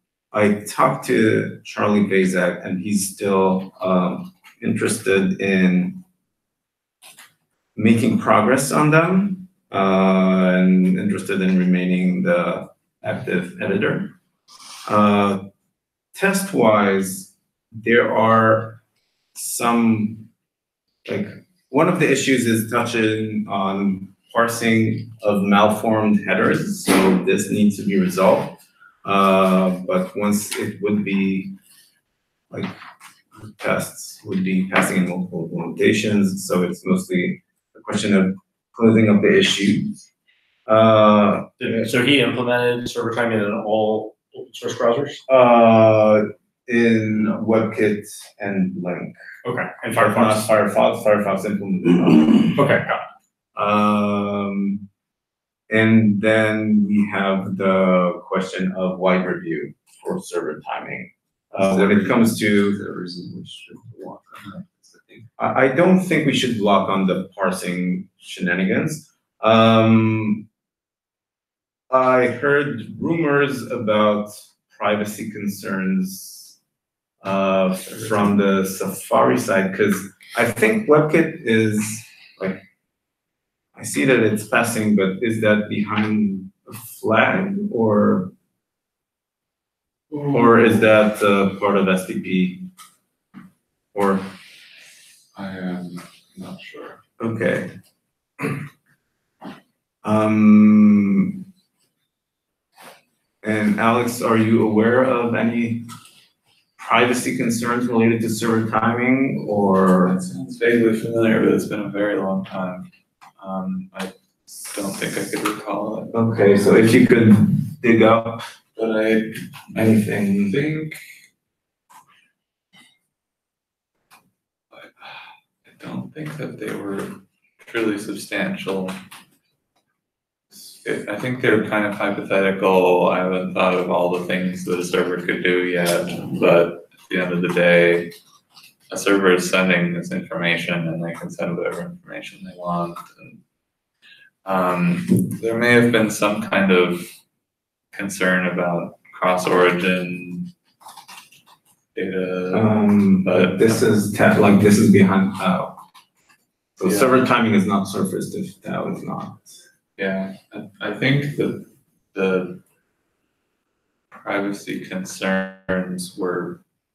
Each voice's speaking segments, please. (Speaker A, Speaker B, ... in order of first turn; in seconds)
Speaker A: 0.3-6.0, 7.7-14.1, 14.8-15.5, 16.1-18.8, 19.3-20.3, 21.0-31.5, 32.5-32.7, 33.4-40.0, 40.6-41.9, 45.3-49.1, 49.9-52.6, 53.5-54.8, 55.7-62.8, 65.4-70.5, 71.9-76.6, 77.2-82.6, 83.7-88.3, 90.3-92.7, 93.9-94.3, 97.2-97.7, 100.0-101.4, 103.4-105.8, 106.8-110.2, 116.1-118.4, 119.8-120.6, 152.5-155.7, 156.8-159.6
Speaker B: 41.6-45.2, 49.4-50.5, 52.5-53.0
Speaker C: 61.6-65.3
Speaker D: 90.1-90.7, 95.3-97.0, 110.0-116.4, 118.8-121.0, 124.7-129.0, 130.5-138.1, 138.9-143.4, 144.4-147.1, 147.9-150.5, 151.9-154.0, 156.8-157.2, 160.0-162.6, 164.2-166.6